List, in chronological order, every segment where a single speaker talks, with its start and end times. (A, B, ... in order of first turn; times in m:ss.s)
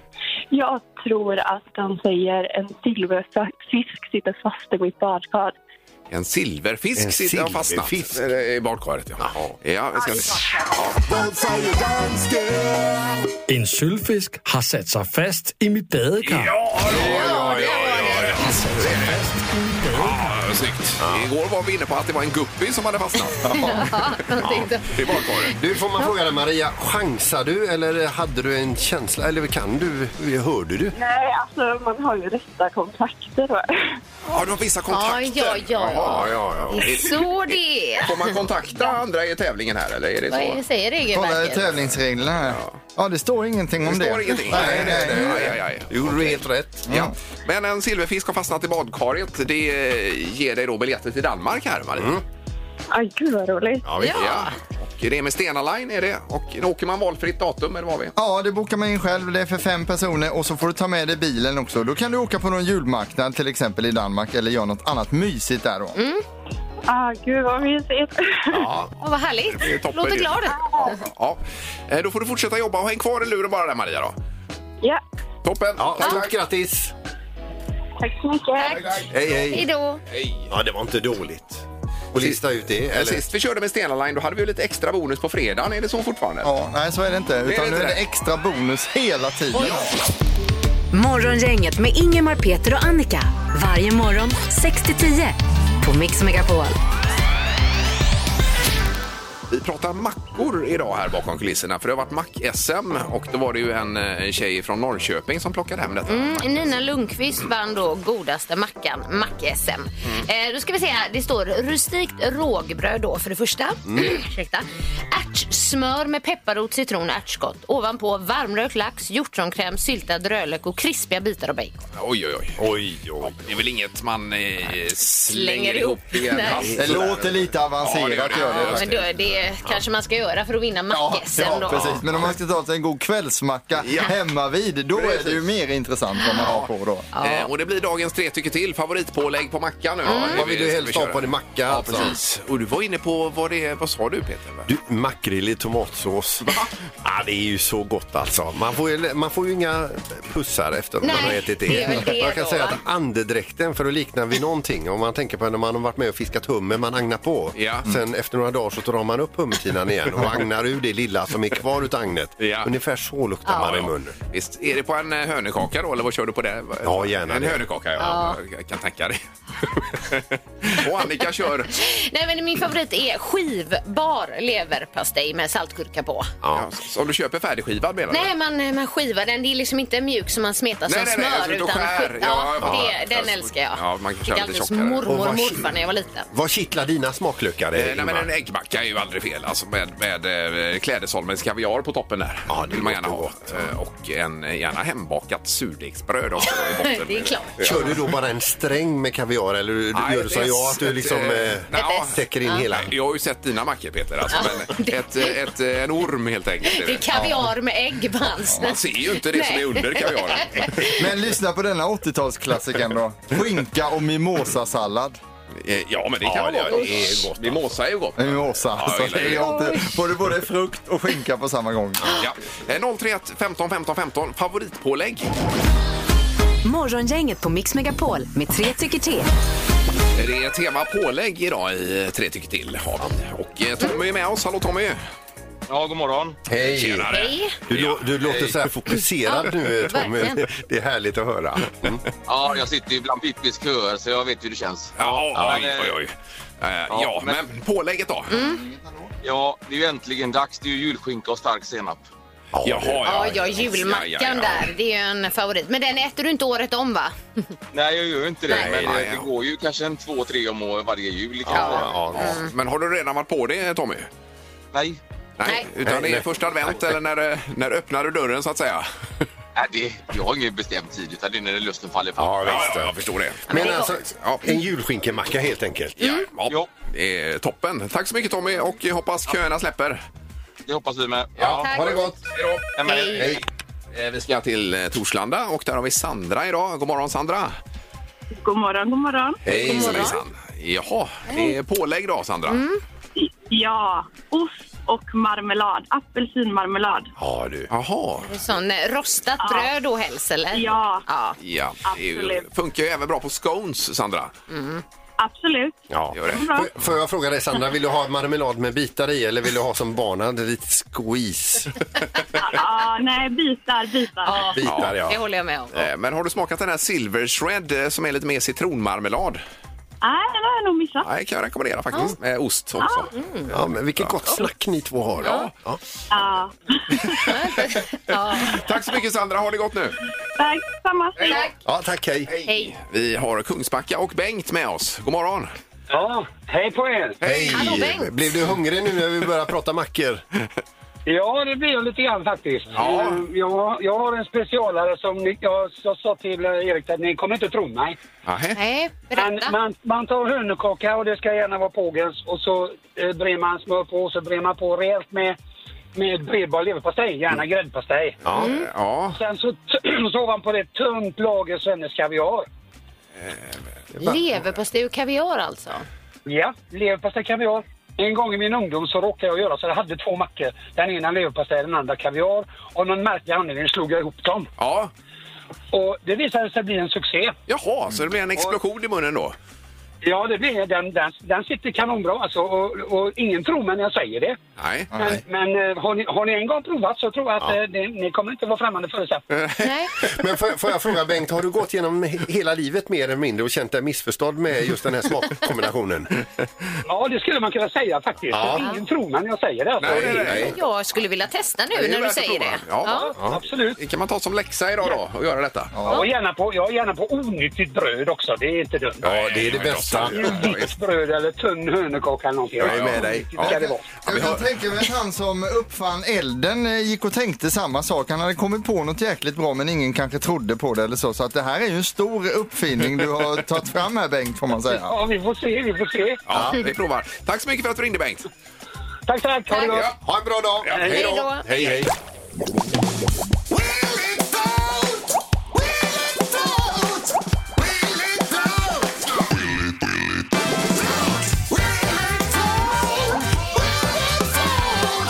0:00.5-0:05.5 A
0:06.1-0:11.0 B
0:07.0-0:08.2 C
0:09.2-0:09.6 C
0:11.0-0:13.1 D
0:13.5-0:16.6 E
0:16.2-0:19.2 B
0:16.8-0:19.3 C
0:16.9-0:18.6 F
0:19.5-0:20.2 E
0:19.9-0:23.7 B
0:21.0-0:21.3 C
0:23.4-0:26.1 F
0:24.4-0:25.5 B
0:25.5-0:30.9 C
0:30.9-0:34.0 A
0:34.3-0:40.6 B
0:34.9-0:38.9 F
0:36.0-0:36.8 C
0:40.3-0:41.7 F
0:41.1-0:45.6 G
0:42.4-0:42.7 B
0:43.8-0:52.2 B
0:44.5-0:46.9 C
0:46.9-0:47.1 G
0:52.0-0:52.2 C
0:52.9-0:53.9 A
0:53.8-0:54.2 C
0:54.0-0:54.5 F
0:54.1-0:58.1 B
0:58.1-1:06.0 G
1:06.0-1:06.2 F
1:06.9-1:08.7 A
1:08.5-1:08.9 B
1:09.0-1:11.0 F
1:09.5-1:10.4 B
1:10.6-1:11.0 A
1:11.0-1:14.1 B
1:15.4-1:16.3 B
1:15.8-1:16.9 C
1:18.0-1:19.0 A
1:18.6-1:20.0 F
1:18.7-1:19.1 B
1:19.1-1:19.6 C
1:20.1-1:20.5 B
1:20.5-1:23.2 C
1:22.2-1:26.5 B
1:26.4-1:29.9 G
1:27.4-1:28.0 B
1:29.6-1:29.9 B
1:30.9-1:36.8 H
1:39.5-1:46.8 B
1:46.1-2:01.8 F
1:53.9-1:54.1 C
2:02.0-2:02.6 B
2:02.6-2:03.5 C
2:03.2-2:09.1 B
2:05.3-2:06.7 F
2:06.6-2:07.2 C
2:06.7-2:08.9 G
2:08.3-2:11.8 F
2:10.9-2:17.1 G
2:11.7-2:12.4 B
2:13.8-2:14.1 B
2:14.9-2:15.4 B
2:16.4-2:16.7 B
2:17.1-2:17.5 F
2:17.2-2:24.7 B
2:20.0-2:20.4 F
2:20.1-2:22.1 C
2:24.7-2:44.1 C
2:26.4-2:26.7 B
2:31.0-2:32.8 F
2:37.6-2:37.9 B
2:42.4-2:42.7 B
2:43.5-2:43.7 F
2:43.6-2:51.7 B
2:46.8-2:47.6 C
2:48.0-2:48.4 F
2:51.7-2:56.3 F
2:56.4-2:56.7 C
2:56.5-2:58.3 B
2:58.1-3:06.3 F
3:00.9-3:05.1 B
3:02.6-3:02.9 C
3:05.1-3:05.7 C
3:06.3-3:08.3 C
3:07.7-3:18.0 B
3:12.5-3:13.7 C
3:16.4-3:17.7 F
3:17.6-3:22.9 C
3:19.9-3:22.2 B
3:21.7-3:22.6 F
3:22.7-3:27.1 B
3:24.3-3:25.4 F
3:26.6-3:31.0 F
3:27.1-3:27.5 G
3:28.6-3:30.9 B
3:30.9-3:35.2 G
3:35.6-3:39.5 B
3:36.2-3:37.5 C
3:38.2-3:42.0 G
3:39.4-3:39.9 F
3:42.2-3:45.3 B
3:46.6-3:49.3 H
3:50.2-3:55.0 B
3:55.7-3:56.4 I
3:56.5-3:57.1 C
3:56.6-3:58.6 B
3:57.1-3:57.6 F
3:57.7-4:02.0 C
3:59.2-4:00.4 F
4:02.2-4:06.0 I
4:05.0-4:08.4 B
4:05.3-4:05.7 C
4:06.9-4:07.4 I
4:08.3-4:08.6 F
4:08.3-4:09.1 G
4:09.2-4:12.0 I
4:12.5-4:13.4 C
4:12.6-4:14.7 B
4:13.0-4:17.2 F
4:17.7-4:22.1 I
4:18.5-4:19.0 C
4:18.6-4:19.3 B
4:21.4-4:22.4 C
4:21.5-4:22.5 F
4:22.1-4:24.1 B
4:24.7-4:25.0 I
4:25.4-4:28.9 B
4:25.8-4:26.9 C
4:29.6-4:32.8 I
4:32.2-4:36.0 C
4:32.4-4:34.4 B
4:33.5-4:33.9 F
4:36.0-4:36.3 F
4:36.0-4:40.0 B
4:40.6-4:41.8 I
4:41.4-4:41.6 B
4:41.4-4:42.2 C
4:41.6-4:42.0 F
4:42.3-4:43.3 B
4:42.8-4:43.4 I
4:42.8-4:43.3 F
4:43.2-4:43.4 C
4:43.9-4:47.6 B
4:48.4-4:49.4 A
4:49.4-4:50.2 C
4:49.5-4:52.6 B
4:49.5-4:50.2 F
4:52.5-4:52.8 F
4:53.2-4:57.1 A
4:57.2-4:57.7 C
4:57.7-4:58.3 B
4:58.3-5:01.4 F
4:59.4-4:59.7 A
5:00.5-5:01.0 A
5:01.4-5:04.3 B
5:01.8-5:02.5 A
5:04.5-5:04.8 F
5:05.2-5:06.7 A
5:05.9-5:11.8 C
5:06.1-5:06.4 B
5:12.4-5:14.4 A
5:14.2-5:15.7 F
5:14.6-5:15.2 C
5:14.6-5:15.0 B
5:15.7-5:19.4 B
5:20.0-5:21.1 A
5:21.0-5:23.1 B
5:22.8-5:23.1 A
5:23.1-5:23.5 F
5:23.5-5:25.8 C
5:25.2-5:25.5 F
5:25.2-5:25.5 B
5:26.1-5:27.1 A
5:27.2-5:28.6 F
5:28.1-5:30.0 B
5:30.4-5:31.5 A
5:31.2-5:31.5 F
5:31.6-5:32.3 C
5:32.3-5:35.5 B
5:32.4-5:32.7 F
5:35.9-5:37.2 J
5:37.2-5:37.9 B
5:37.2-5:40.2 C
5:37.5-5:38.1 F
5:41.1-5:48.0 J
5:42.7-5:43.2 B
5:48.2-5:48.6 B
5:48.6-5:49.6 F
5:49.2-5:55.4 J
5:55.9-5:58.2 J
5:58.2-5:58.5 C
5:58.3-5:59.2 B
5:58.4-5:58.7 F
5:59.1-6:02.5 J
6:04.0-6:04.2 C
6:04.0-6:05.8 F
6:06.2-6:14.5 J
6:14.6-6:14.9 B
6:15.7-6:17.4 J
6:17.5-6:19.4 B
6:20.0-6:24.4 J
6:24.6-6:24.9 B
6:24.9-6:29.2 J
6:29.3-6:29.7 B
6:29.6-6:29.9 F
6:30.1-6:36.1 C
6:36.9-6:40.4 J
6:38.3-6:38.6 C
6:38.5-6:38.8 F
6:39.8-6:40.5 B
6:39.8-6:40.5 C
6:40.2-6:43.1 F
6:41.7-6:43.1 B
6:42.9-6:43.8 J
6:43.2-6:43.4 C
6:43.8-6:45.7 B
6:45.7-6:46.1 G
6:45.9-6:49.3 J
6:49.0-6:50.7 B
6:49.0-6:50.6 C
6:50.0-6:53.9 J
6:52.6-6:53.6 C
6:52.6-6:54.4 B
6:54.0-7:04.9 G
7:04.7-7:06.2 J
7:06.3-7:08.3 B
7:06.3-7:06.6 C
7:09.1-7:10.0 J
7:09.5-7:09.8 F
7:09.6-7:09.9 B
7:10.0-7:11.9 C
7:10.7-7:11.0 J
7:10.8-7:11.5 F
7:19.2-7:19.6 D